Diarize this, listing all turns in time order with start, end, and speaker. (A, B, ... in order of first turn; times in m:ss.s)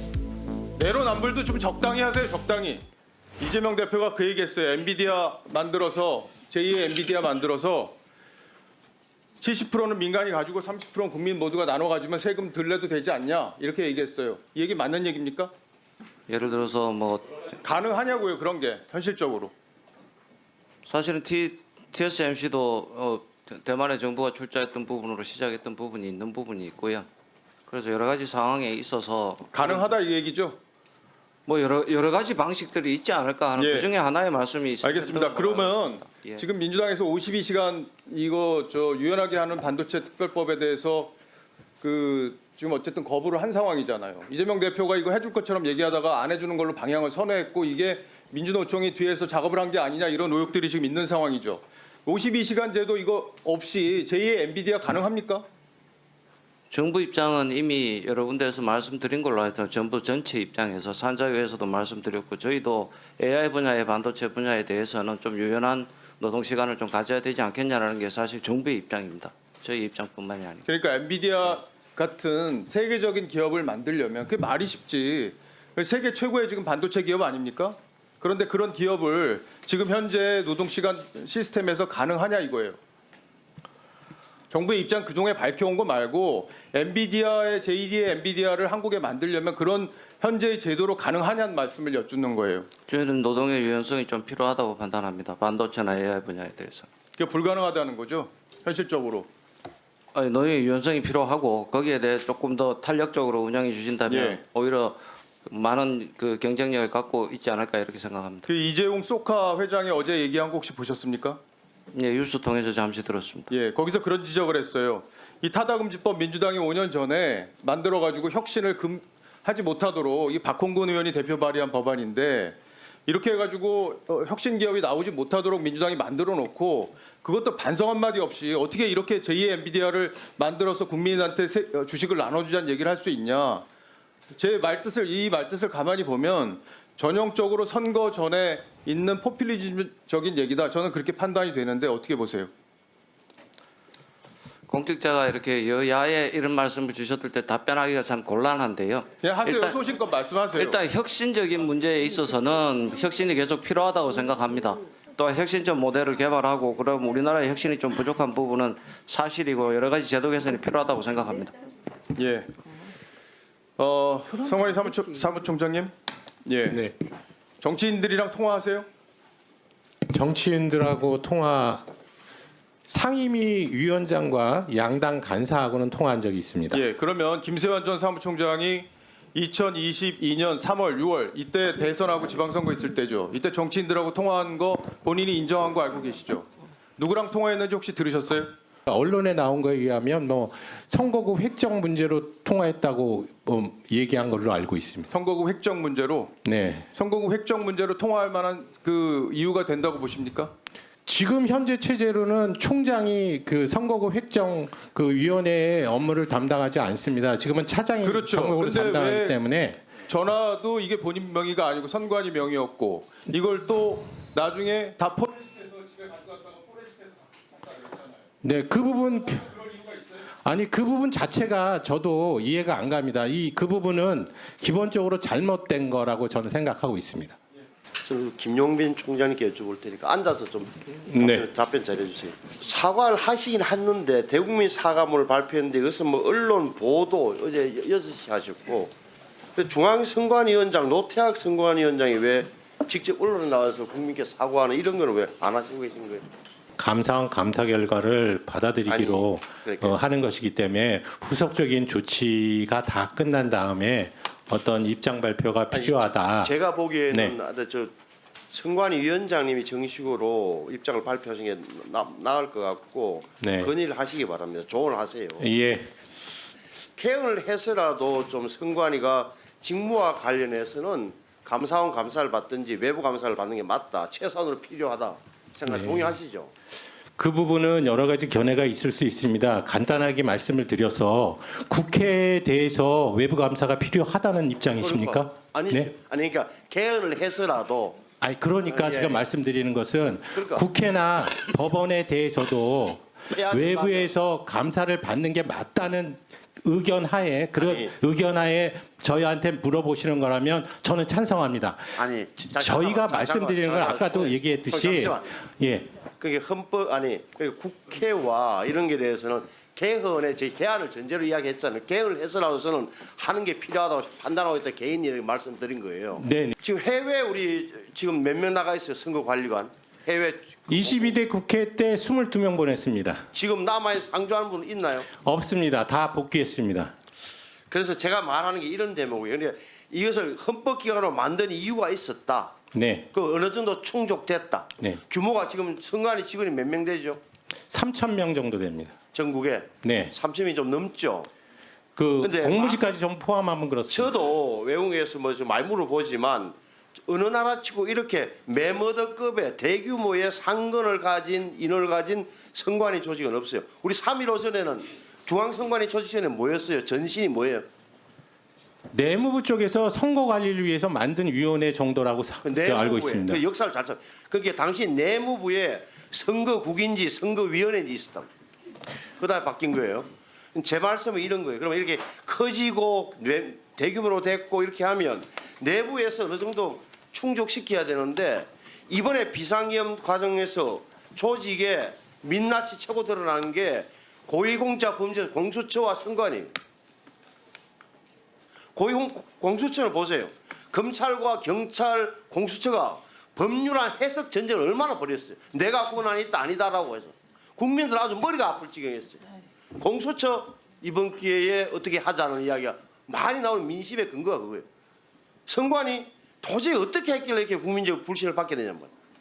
0:00.8-0:02.8 A
0:03.4-0:08.0 A
0:09.4-0:15.5 A
0:16.3-0:17.3 B
0:17.6-0:19.5 A
0:20.8-0:27.1 B
0:27.7-0:29.9 B
0:29.5-0:30.6 A
0:31.4-0:36.4 B
0:33.6-0:33.9 A
0:34.8-0:41.1 A
0:41.8-0:55.4 A
0:56.7-1:10.6 B
1:10.6-1:22.8 A
1:24.5-1:32.7 A
1:32.9-1:36.9 B
1:37.2-1:39.3 A
1:40.1-1:48.5 B
1:44.1-1:44.4 A
1:48.4-1:51.4 A
1:51.9-1:53.5 B
1:53.5-2:13.6 A
2:14.3-2:22.5 A
2:24.7-2:29.8 B
2:29.2-2:30.8 A
2:30.5-2:41.6 B
2:42.2-2:42.5 A
2:43.8-2:45.9 A
2:46.4-2:46.8 A
2:47.6-2:48.9 A
2:50.1-2:51.8 C
2:52.8-2:56.8 C
2:56.7-3:08.5 A
3:08.9-3:15.1 C
3:15.1-3:16.3 A
3:16.4-3:16.8 C
3:16.9-3:20.5 A
3:21.0-3:29.8 C
3:28.0-3:29.4 A
3:30.1-3:38.3 A
3:38.4-3:39.6 C
3:39.5-3:40.2 A
3:40.4-3:47.4 C
3:48.0-3:58.9 D
3:51.1-3:51.4 C
3:59.6-4:06.2 D
4:06.8-4:16.5 C
4:08.9-4:10.0 D
4:15.7-4:17.9 D
4:18.5-4:25.5 D
4:23.4-4:23.7 C
4:25.4-4:25.9 C
4:27.0-4:36.5 D
4:35.7-4:36.1 C
4:37.2-4:45.9 C
4:44.8-4:48.0 D
4:48.2-5:05.9 C
4:48.7-4:49.2 D
4:50.3-4:50.6 D
4:53.3-4:54.1 D
4:57.6-4:57.9 D
5:02.0-5:05.3 D
5:06.2-5:21.2 D
5:16.2-5:16.5 C
5:20.7-5:23.2 C
5:23.3-5:25.1 D
5:25.2-5:26.9 C
5:27.7-5:32.6 D
5:32.7-5:33.1 C
5:33.1-5:37.2 D
5:37.7-5:38.9 C
5:39.1-5:41.3 D
5:39.8-5:40.1 C
5:42.0-5:44.1 C
5:42.2-5:42.8 D
5:43.9-5:46.5 D
5:47.1-5:57.6 D
5:58.9-6:03.4 C
6:02.4-6:08.3 D
6:09.2-6:26.5 D
6:28.7-6:39.2 D
6:39.8-6:44.6 D
6:45.5-6:48.9 D